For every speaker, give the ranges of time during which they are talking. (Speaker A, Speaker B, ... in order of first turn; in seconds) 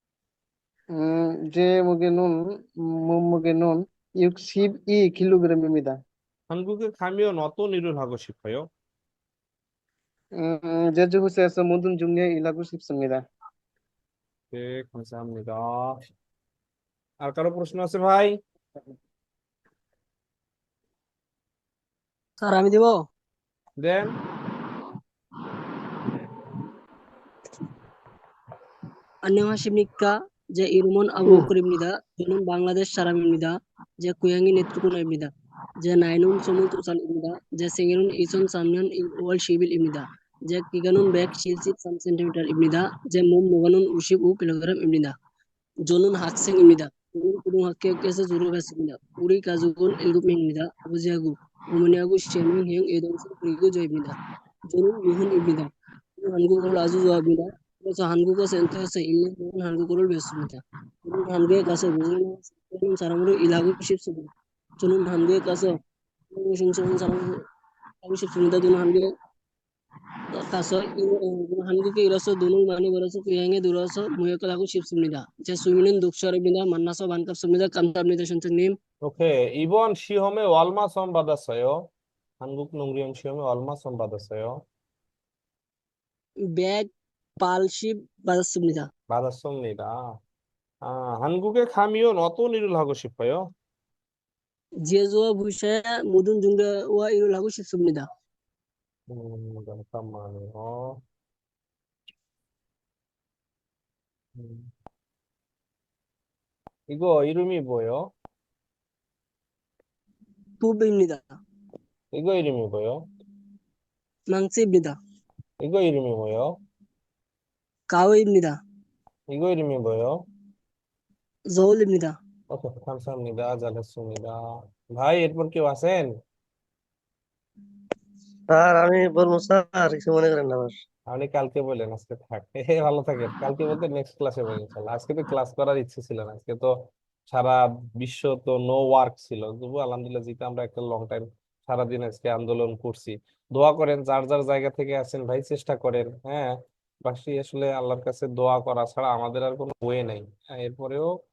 Speaker A: 1.0-6.0, 10.4-13.2
Speaker B: 6.5-8.7, 14.5-16.0, 17.2-18.4, 23.8-24.1, 79.0-81.8, 82.4-84.6, 89.1-89.9, 90.9-93.4, 99.1-101.0, 104.4-104.7, 106.9-108.0, 112.1-113.0, 115.6-116.5, 119.3-120.2, 122.5-124.4, 125.0-126.1, 131.1-136.7, 137.3-146.5, 147.1-151.1
Speaker C: 22.4-23.0, 29.3-35.3, 35.8-45.1, 45.9-54.2, 54.7-64.3, 64.8-65.8, 66.3-67.4, 68.0-69.1, 70.3-78.8, 86.6-86.9, 87.4-88.9, 94.9-98.1, 110.6-111.4, 114.3-115.0, 117.9-118.6, 121.5-122.1
Speaker D: 128.5-130.7